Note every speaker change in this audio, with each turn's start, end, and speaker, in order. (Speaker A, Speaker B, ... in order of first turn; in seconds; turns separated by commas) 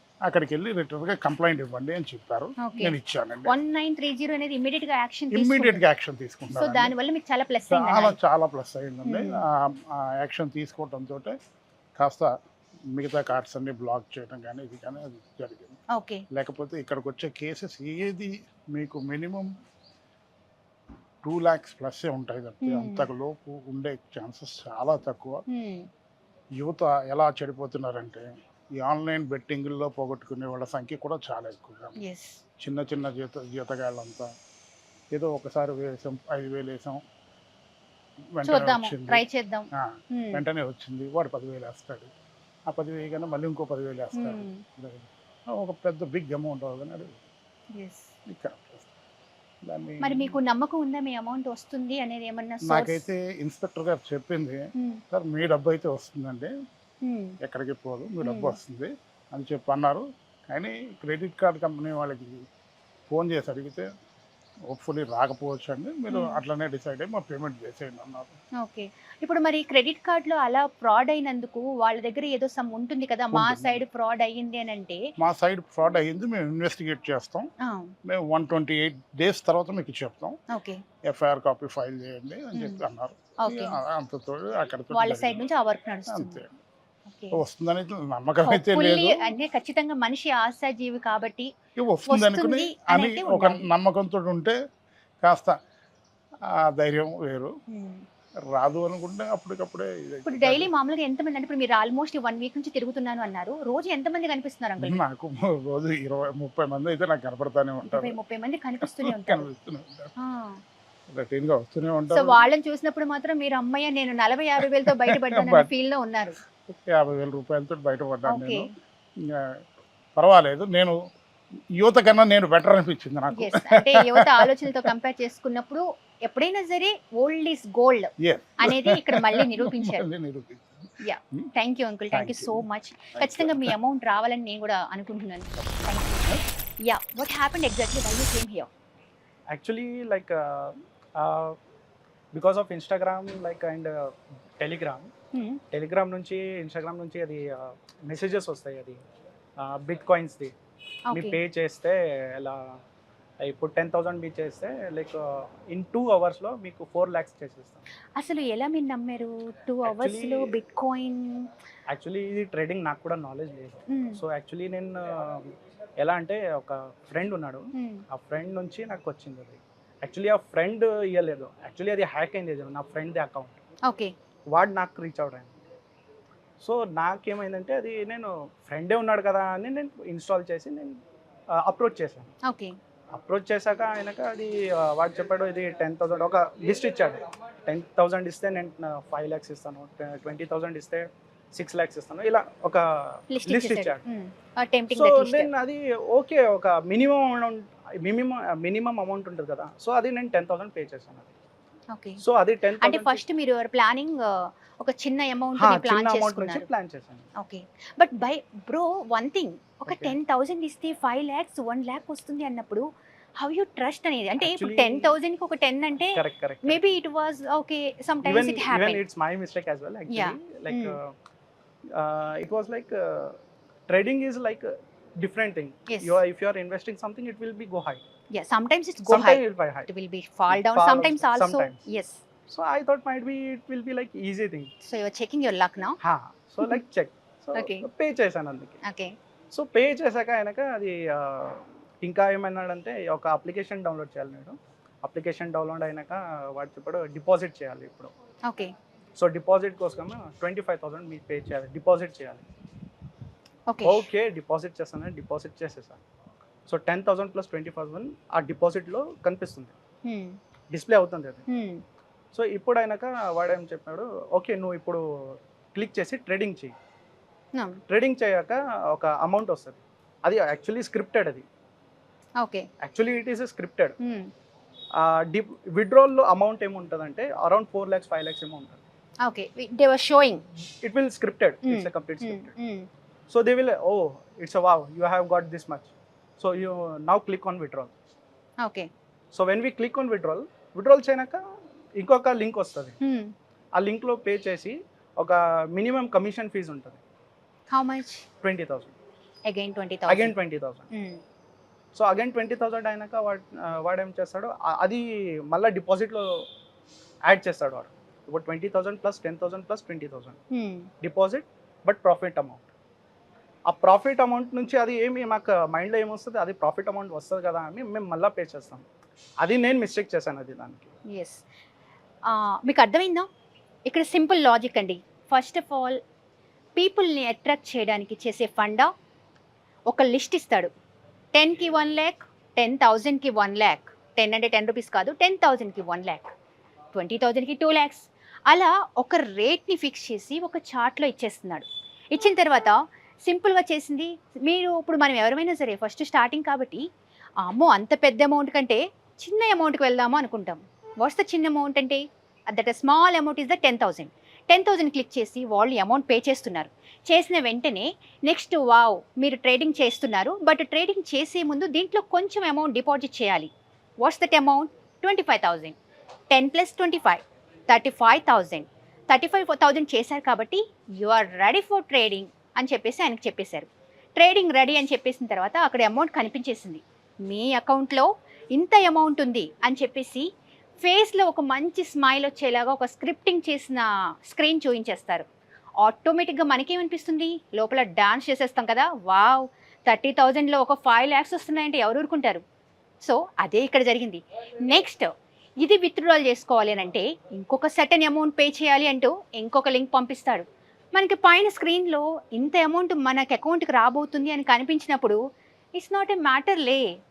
Speaker A: 0.3-3.5, Speaker B: 2.6-3.0, Speaker B: 3.5-5.8, Speaker A: 5.3-6.9, Speaker B: 6.6-8.2, Speaker A: 7.7-11.3, Speaker B: 9.1-9.4, Speaker A: 12.0-12.3, Speaker A: 12.9-15.8, Speaker B: 15.9-16.2, Speaker A: 16.3-19.5, Speaker A: 21.2-25.4, Speaker B: 22.6-23.1, Speaker B: 25.5-25.9, Speaker A: 26.6-32.0, Speaker B: 32.0-32.4, Speaker A: 32.6-34.3, Speaker A: 35.1-37.0, Speaker A: 38.4-39.2, Speaker B: 38.4-40.4, Speaker A: 39.7-42.1, Speaker A: 42.7-47.1, Speaker B: 44.2-44.6, Speaker B: 47.8-48.1, Speaker A: 48.3-48.9, Speaker A: 49.6-50.4, Speaker B: 50.0-53.0, Speaker A: 52.7-56.5, Speaker B: 54.8-55.0, Speaker B: 57.0-57.4, Speaker A: 57.4-62.5, Speaker B: 58.2-58.5, Speaker A: 63.1-63.9, Speaker A: 64.7-68.3, Speaker B: 66.1-66.4, Speaker B: 68.6-75.0, Speaker A: 73.3-73.8, Speaker A: 75.2-77.5, Speaker B: 77.6-77.9, Speaker A: 78.0-80.4, Speaker B: 80.5-80.8, Speaker A: 81.1-85.4, Speaker B: 82.5-82.8, Speaker B: 83.4-83.8, Speaker B: 84.9-86.5, Speaker A: 86.1-86.5, Speaker B: 87.1-87.4, Speaker A: 87.3-89.3, Speaker B: 88.5-91.5, Speaker A: 91.8-94.6, Speaker B: 92.1-93.7, Speaker A: 95.2-95.6, Speaker A: 96.5-97.5, Speaker B: 97.7-98.0, Speaker A: 98.5-100.7, Speaker B: 100.3-105.0, Speaker A: 104.8-108.2, Speaker B: 107.9-109.5, Speaker A: 108.8-110.1, Speaker B: 110.2-110.6, Speaker A: 111.2-112.4, Speaker B: 112.1-116.4, Speaker A: 114.6-115.7, Speaker A: 116.7-118.7, Speaker B: 118.3-118.7, Speaker A: 119.2-119.6, Speaker A: 120.2-121.0, Speaker A: 121.8-124.9, Speaker B: 123.3-130.1, Speaker A: 128.2-131.5, Speaker B: 131.0-136.3, Speaker A: 132.1-132.6, Speaker A: 133.2-133.8, Speaker B: 136.8-138.7, Speaker C: 139.5-141.6, Speaker C: 142.3-145.1, Speaker B: 145.3-145.6, Speaker C: 145.7-149.0, Speaker C: 149.6-150.5, Speaker B: 151.1-151.4, Speaker C: 151.1-152.8, Speaker C: 153.4-157.8, Speaker B: 158.2-161.5, Speaker C: 159.8-160.5, Speaker C: 161.9-173.6, Speaker B: 163.9-164.2, Speaker B: 167.8-168.0, Speaker B: 173.9-174.1, Speaker C: 174.5-175.6, Speaker C: 176.6-181.0, Speaker C: 181.5-182.3, Speaker B: 182.4-182.8, Speaker C: 183.1-194.0, Speaker B: 193.3-195.5, Speaker C: 194.9-201.3, Speaker B: 201.9-202.2, Speaker C: 202.2-203.2, Speaker B: 202.8-206.7, Speaker C: 205.6-207.3, Speaker B: 207.4-219.0, Speaker C: 209.9-210.2, Speaker C: 214.4-215.1, Speaker C: 216.2-216.9, Speaker C: 218.2-221.1, Speaker B: 220.1-221.0, Speaker C: 221.9-228.0, Speaker B: 225.9-226.2, Speaker B: 228.3-232.2, Speaker C: 229.1-229.9, Speaker C: 230.5-231.8, Speaker C: 232.5-234.7, Speaker B: 234.8-236.0, Speaker C: 236.0-238.8, Speaker B: 237.6-237.9, Speaker B: 238.8-239.2, Speaker C: 239.5-248.1, Speaker B: 248.5-248.7, Speaker C: 249.2-252.4, Speaker B: 253.7-254.1, Speaker C: 253.8-256.0, Speaker C: 256.7-259.8, Speaker B: 260.1-260.4, Speaker C: 260.7-261.4, Speaker B: 261.5-261.8, Speaker C: 262.3-266.8, Speaker C: 267.9-271.5, Speaker B: 272.4-272.7, Speaker C: 272.8-274.0, Speaker B: 274.0-274.3, Speaker C: 274.9-278.8, Speaker B: 279.2-280.4, Speaker C: 280.8-282.5, Speaker B: 281.6-282.9, Speaker C: 283.3-287.9, Speaker B: 288.6-288.9, Speaker C: 289.3-291.4, Speaker C: 292.0-293.0, Speaker B: 293.0-293.3, Speaker C: 293.8-297.0, Speaker B: 297.7-298.2, Speaker C: 298.4-298.9, Speaker B: 299.5-300.3, Speaker C: 300.1-300.9, Speaker B: 300.9-301.2, Speaker C: 301.9-306.5, Speaker C: 307.3-310.4, Speaker B: 310.5-310.9, Speaker C: 311.0-312.6, Speaker C: 313.7-318.9, Speaker C: 319.4-320.9, Speaker B: 321.1-321.4, Speaker B: 322.3-323.3, Speaker B: 323.9-326.0, Speaker B: 326.8-328.9, Speaker B: 329.9-330.7, Speaker B: 331.3-336.3, Speaker B: 336.9-346.9, Speaker B: 347.4-363.5, Speaker B: 364.0-365.8, Speaker B: 366.3-380.3, Speaker B: 380.8-385.3, Speaker B: 385.8-392.4, Speaker B: 393.0-405.2, Speaker B: 405.8-406.9